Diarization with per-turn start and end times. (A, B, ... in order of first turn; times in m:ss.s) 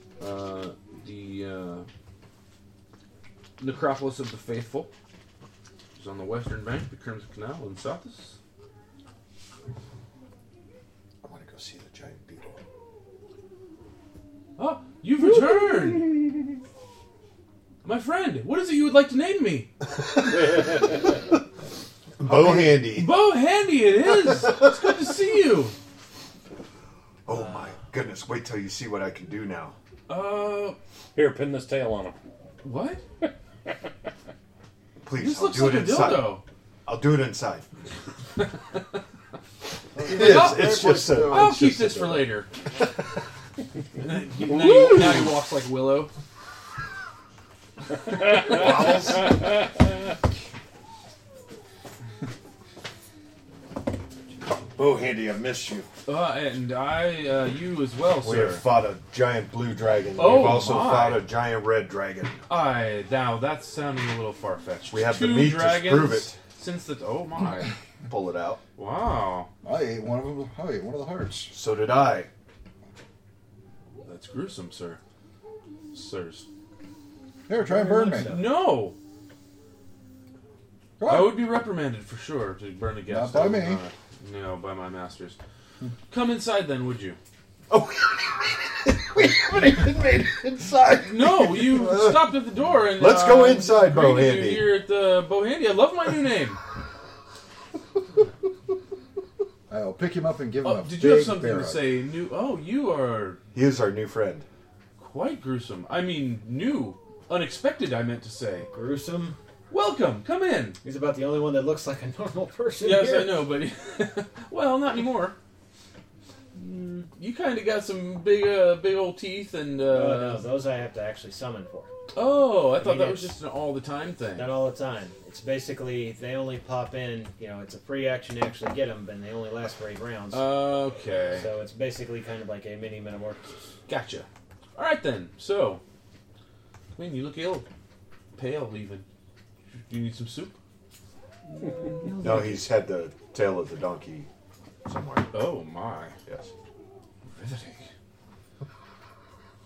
0:00.2-0:01.9 A
0:03.6-0:04.9 A
0:06.0-0:08.4 A
0:11.2-0:12.6 B
0:14.6-0:16.4 A
0:17.8-0:19.7 A
0:22.2-0:23.2 B
0:22.9-0:25.7 A
0:27.2-0:29.8 B
0:30.1-0:30.8 A
0:31.1-0:32.2 C
0:32.6-0:33.0 A
0:35.0-0:37.6 B
0:35.2-0:36.4 A
0:40.0-0:42.1 D
0:40.0-0:42.2 B
0:40.1-0:42.5 A
0:44.0-0:46.1 A
0:44.4-0:45.4 C
0:48.3-0:49.4 B
0:54.7-0:55.9 B
0:56.0-0:58.6 A
0:58.2-1:02.4 B
1:00.2-1:01.3 A
1:02.5-1:07.7 A
1:04.9-1:06.4 B
1:08.0-1:08.6 B
1:08.8-1:09.5 A
1:09.6-1:11.5 D
1:11.5-1:12.3 B
1:14.0-1:15.0 A
1:15.9-1:16.5 A
1:17.5-1:18.4 D
1:17.6-1:18.5 E
1:18.2-1:19.0 A
1:21.0-1:21.5 D
1:21.0-1:25.4 A
1:23.1-1:23.8 D
1:26.1-1:27.2 A
1:27.7-1:32.4 B
1:31.0-1:36.6 A
1:33.0-1:34.8 B
1:39.7-1:41.9 D
1:40.6-1:43.4 A
1:43.5-1:44.4 B
1:45.0-1:48.7 A
1:48.7-1:49.4 E
1:49.7-1:50.8 A
1:50.8-1:53.5 E
1:52.8-1:55.4 A
1:56.5-2:00.5 A
1:59.8-2:01.9 E
2:02.1-2:04.6 A
2:02.7-2:03.4 E
2:04.3-2:10.6 E
2:10.3-2:11.5 A
2:11.3-2:13.5 E
2:13.9-2:15.8 A
2:16.9-2:17.7 A
2:18.4-2:19.0 A
2:19.9-2:20.6 A
2:21.5-2:22.6 E
2:22.2-2:24.3 B
2:24.8-2:25.3 B
2:25.3-2:26.1 A
2:27.3-2:27.9 A